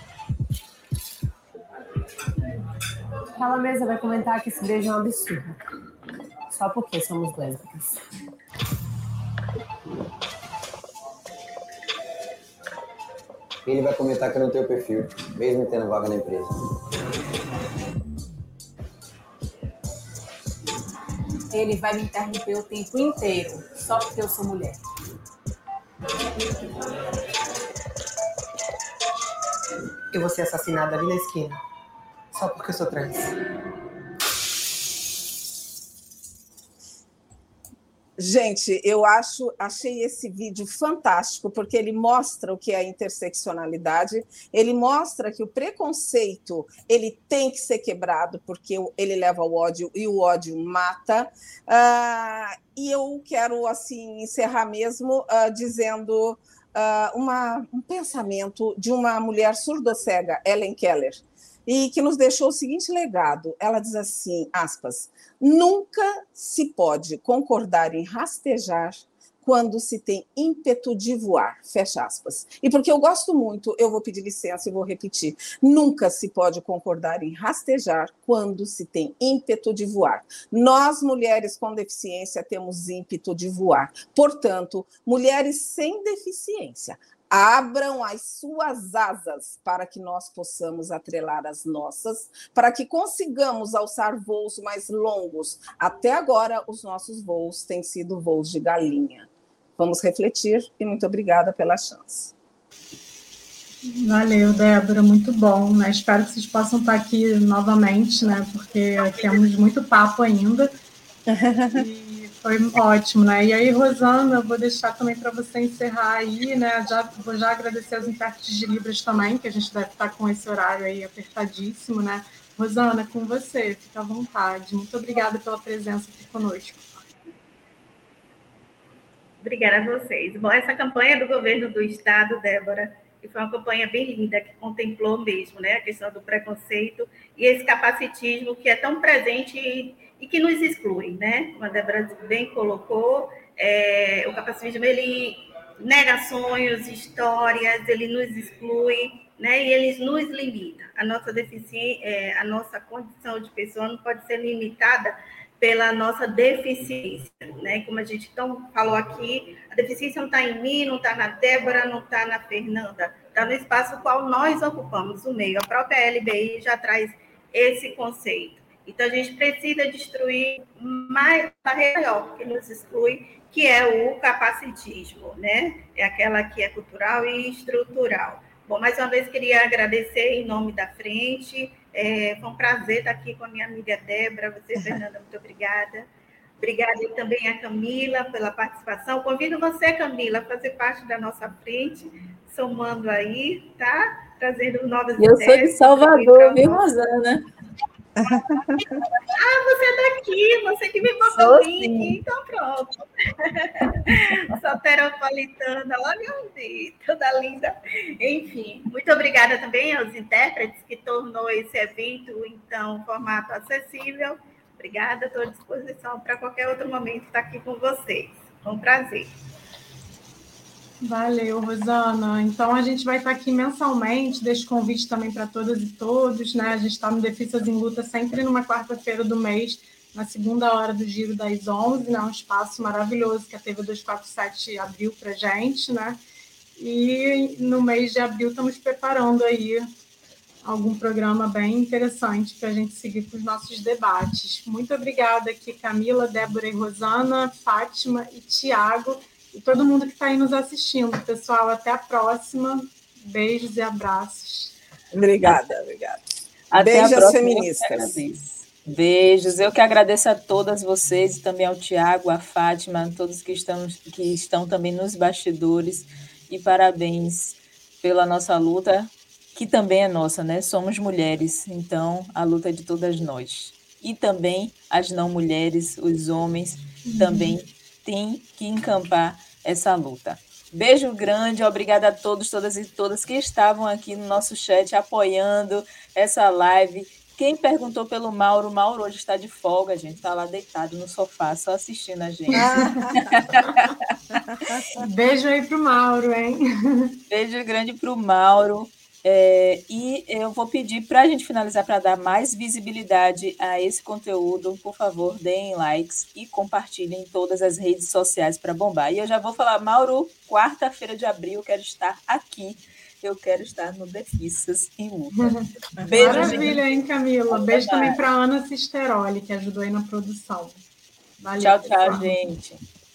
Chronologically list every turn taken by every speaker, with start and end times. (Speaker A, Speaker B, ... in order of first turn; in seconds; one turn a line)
Speaker A: 3.4-5.6
Speaker A: 6.5-7.8
Speaker B: 13.7-16.5
Speaker A: 21.5-24.8
Speaker A: 30.1-31.6
Speaker A: 32.3-33.2
Speaker C: 38.2-102.3
Speaker D: 103.8-110.7
Speaker C: 111.3-111.9
Speaker D: 111.7-126.9
Speaker E: 129.4-186.1
Speaker E: 186.6-196.9
Speaker F: 195.2-197.4
Speaker C: 198.2-199.0
Speaker E: 199.3-219.3
Speaker F: 201.2-202.2
Speaker D: 221.0-236.2
Speaker D: 236.8-239.9
Speaker D: 240.6-254.8
Speaker C: 255.1-256.2
Speaker F: 256.7-294.0
Speaker C: 256.8-258.2
Speaker D: 277.1-277.6
Speaker C: 292.6-293.4
Speaker D: 292.6-292.9
Speaker D: 294.9-297.1
Speaker F: 297.3-316.8
Speaker D: 315.3-320.8
Speaker C: 316.0-316.7
Speaker F: 317.5-318.2
Speaker D: 321.4-322.4
Speaker F: 321.6-322.8